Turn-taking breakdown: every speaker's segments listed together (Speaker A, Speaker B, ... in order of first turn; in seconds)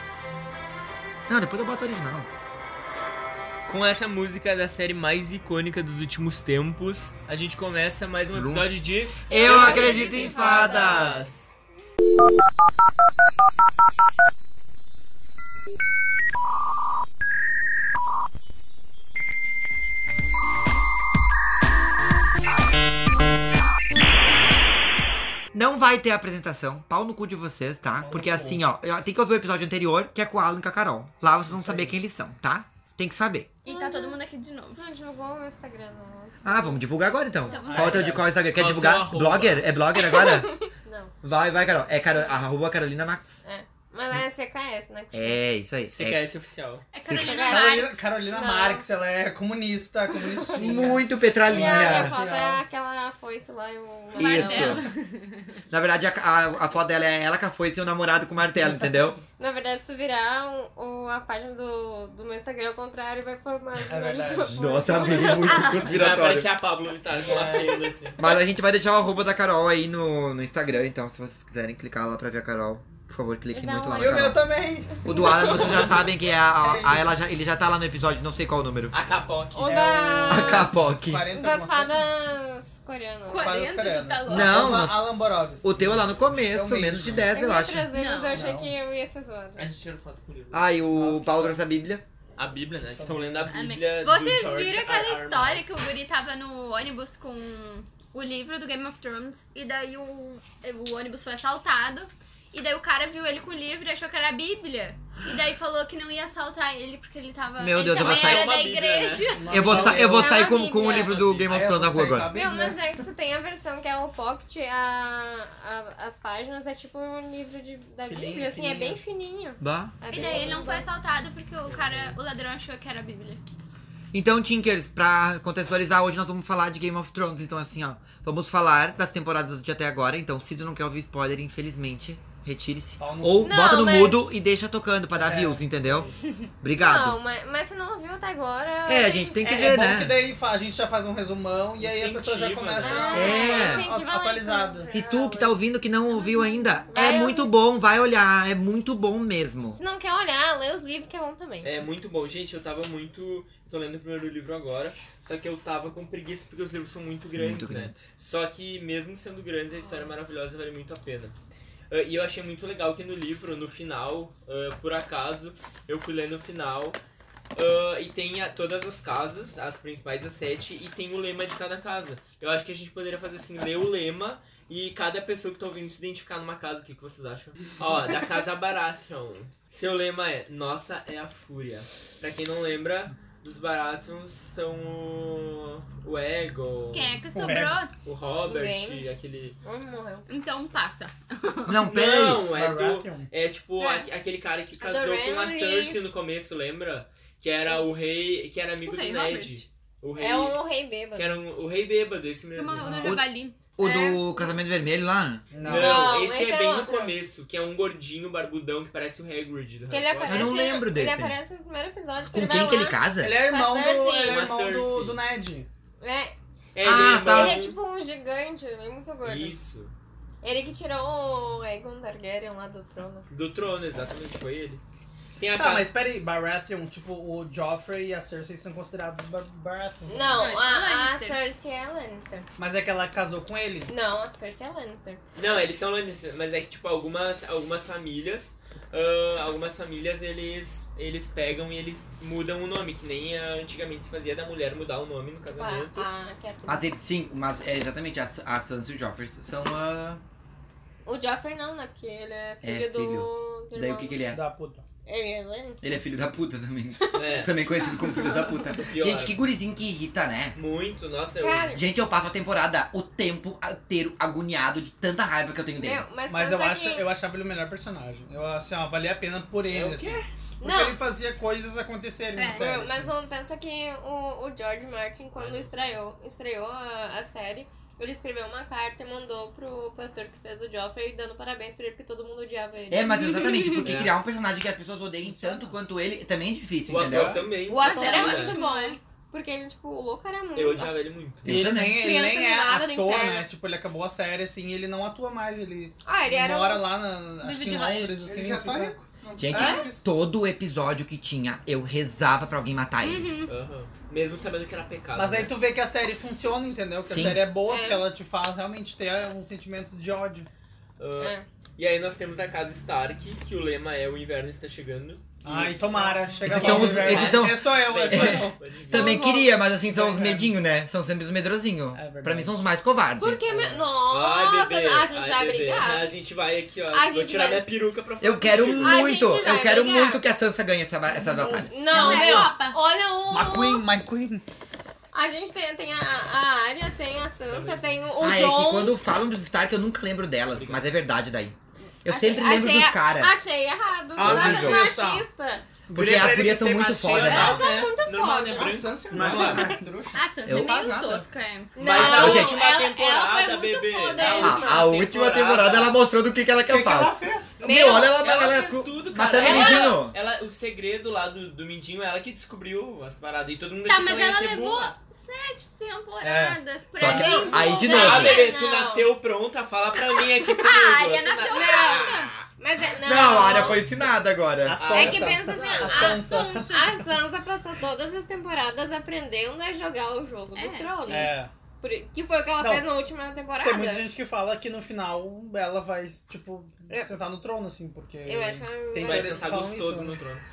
Speaker A: 1.3-2.3, 8.3-8.7, 9.3-11.3, 25.5-33.5, 36.4-40.5, 41.2-43.4, 45.1-46.2, 47.0-47.4, 50.5-52.1, 54.2-54.8, 55.7-59.2, 64.5-66.5, 68.2-74.4, 75.0-78.9, 80.3-81.2, 84.3-87.9, 90.5-92.0, 107.6-108.5, 109.5-112.3, 119.6-120.0, 124.1-137.2, 138.8-140.2, 143.1-143.9, 144.9-149.8, 157.3-157.9, 191.7-192.4, 203.8-205.5, 210.3-211.4, 212.3-213.3, 216.8-217.6, 246.7-250.2, 252.6-254.4, 255.8-260.6, 261.7-266.0, 282.9-287.4, 291.4-292.1, 299.4-303.3, 307.0-307.4, 316.4-323.4, 328.2-332.1, 338.2-343.4, 344.2-344.9, 345.9-347.6, 350.4-350.7, 351.9-352.6, 354.3-360.1, 367.0-368.4, 372.9-374.8
Speaker B: 3.7-11.5, 38.5-39.7, 45.9-46.9, 65.2-68.2, 78.9-79.8, 89.5-90.7, 92.3-95.7, 107.9-109.8, 110.7-111.6, 121.7-122.2, 141.8-143.5, 151.6-161.3, 161.9-167.0, 167.5-187.2, 188.0-189.6, 191.8-200.6, 201.1-203.2, 205.6-210.6, 214.2-215.2, 216.7-217.8, 219.2-219.9, 223.3-224.8, 225.4-225.9, 235.3-246.1, 257.1-257.6, 258.7-259.4, 260.5-261.8, 269.7-270.2, 275.4-275.7, 283.8-284.1, 286.9-288.6, 290.5-291.5, 303.5-305.5, 311.0-319.2, 324.0-329.1, 337.5-338.0, 340.5-340.9, 347.1-349.7, 351.8-356.0, 358.1-364.9, 367.8-372.4, 374.8-376.1, 389.0-390.4
Speaker C: 9.3-11.2, 33.7-34.2, 34.7-36.8, 39.9-41.1, 43.4-45.4, 47.2-48.8, 50.1-50.8, 51.5-54.9, 59.4-65.9, 73.5-74.4, 79.5-80.7, 81.3-83.5, 87.3-89.7, 109.8-111.1, 112.3-120.9, 133.4-134.2, 136.7-139.8, 142.8-145.5, 146.9-147.5, 149.7-151.7, 159.8-160.1, 188.4-189.1, 189.6-190.3, 194.8-196.0, 200.2-201.4, 203.8-204.6, 205.6-207.1, 209.9-214.5, 216.0-216.3, 217.3-219.6, 220.4-223.2, 230.1-232.5, 233.9-235.2, 245.5-246.9, 251.1-254.2, 255.1-256.0, 257.0-257.4, 261.4-261.8, 265.8-267.1, 270.6-271.0, 272.5-283.5, 287.7-291.0, 291.8-293.5, 296.0-296.8, 307.7-308.0, 318.9-319.6, 323.2-326.1, 326.9-327.6, 328.8-330.2, 331.7-333.8, 335.1-339.0, 342.1-345.6, 347.2-348.8, 351.8-354.9, 357.6-358.2, 359.3-360.0, 367.0-369.1, 371.4-374.0, 374.9-384.1, 386.9-387.2, 388.2-389.5
Speaker D: 9.5-10.8, 33.6-34.9, 37.4-38.1, 46.9-47.8, 54.2-55.3, 65.0-65.9, 83.3-84.7, 87.9-88.5, 93.5-109.6, 120.0-123.4, 186.9-187.9, 190.3-191.8, 193.8-194.1, 198.8-199.6, 202.5-203.6, 230.3-231.4, 258.0-258.6, 272.4-272.7, 283.3-283.7, 287.7-289.0, 297.4-298.2, 299.5-299.8, 303.0-303.5, 331.9-332.8, 350.1-351.9, 363.9-368.2, 370.0-372.4, 375.8-377.0, 380.5-381.3
Speaker E: 28.0-28.6, 31.4-32.0, 37.6-38.3, 47.4-52.6, 58.6-58.9, 63.9-64.7, 67.1-67.8, 73.9-77.2, 79.7-82.1, 83.3-87.3, 88.3-88.7, 90.9-91.6, 93.0-93.5, 109.3-110.5, 111.5-112.8, 118.0-119.0, 133.0-133.5, 135.2-136.2, 139.4-144.9, 187.3-187.8, 192.5-193.3, 202.8-203.2, 205.5-206.1, 213.2-215.7, 225.5-230.3, 232.6-233.9, 254.3-254.8, 266.3-273.1, 285.2-285.7, 291.4-298.9, 305.1-310.5, 315.4-318.6, 319.8-320.6, 321.9-322.6, 323.5-323.8, 331.1-332.5, 333.3-334.4, 344.1-345.2, 345.9-347.6, 349.1-349.9, 366.2-367.4, 374.6-377.0, 381.1-381.5, 382.6-382.9, 383.6-390.2
Speaker F: 298.2-300.0, 316.0-317.1, 348.5-351.2, 356.6-357.6